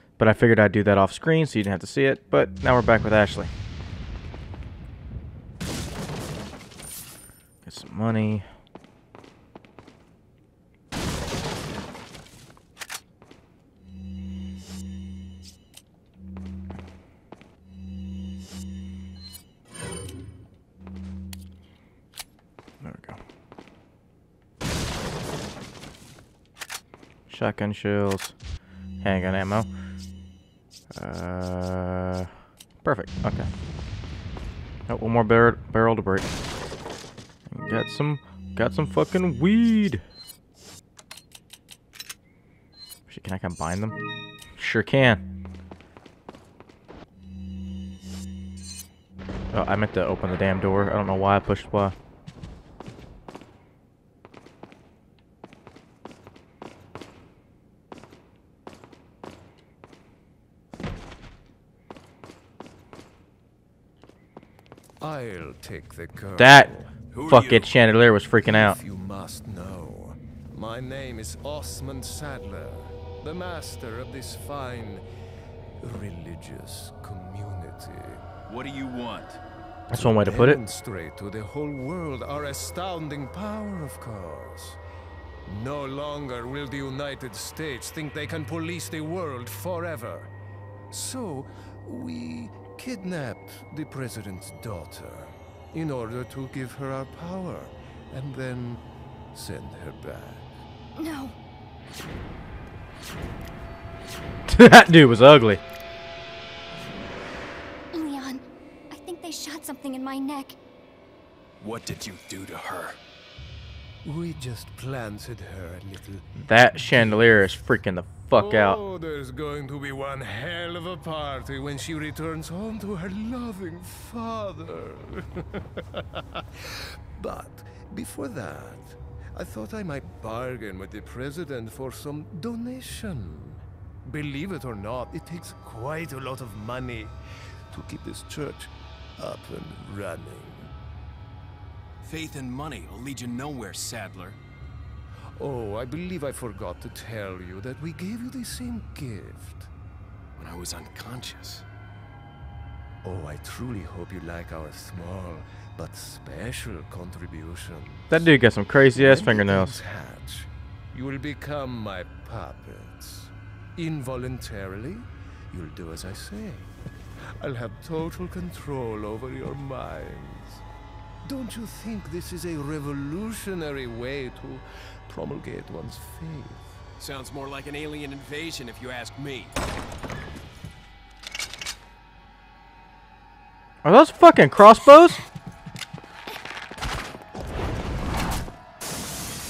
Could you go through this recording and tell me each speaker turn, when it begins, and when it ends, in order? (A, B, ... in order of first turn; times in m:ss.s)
0:00.2-0:03.5 A
0:07.6-0:08.4 A
0:22.8-0:23.2 A
0:27.3-0:28.3 A
0:29.0-0:29.7 A
0:30.9-0:32.3 A
0:32.8-0:33.5 A
0:34.9-0:36.3 A
0:37.5-0:40.0 A
0:43.1-0:44.0 A
0:44.6-0:45.2 A
0:49.5-0:52.0 A
1:05.0-1:07.0 B
1:06.4-1:06.7 A
1:07.1-1:07.7 C
1:07.2-1:08.8 A
1:08.4-1:15.0 B
1:15.8-1:18.3 B
1:18.5-1:19.4 C
1:19.9-1:20.6 A
1:19.9-1:24.8 B
1:25.4-1:30.3 B
1:30.9-1:38.8 B
1:39.3-1:40.5 B
1:41.0-1:41.4 D
1:44.5-1:45.6 A
1:47.9-1:50.6 D
1:51.6-1:53.0 C
1:54.0-1:56.3 B
1:56.4-1:58.8 A
1:58.4-2:17.1 B
2:17.7-2:20.7 B
2:22.0-2:24.4 C
2:25.4-2:29.7 B
2:30.4-2:31.6 C
2:33.0-2:38.3 B
2:38.1-2:39.8 A
2:38.9-2:46.7 B
2:47.4-2:50.6 B
2:51.2-2:56.8 B
2:57.0-2:59.6 C
3:03.8-3:05.2 A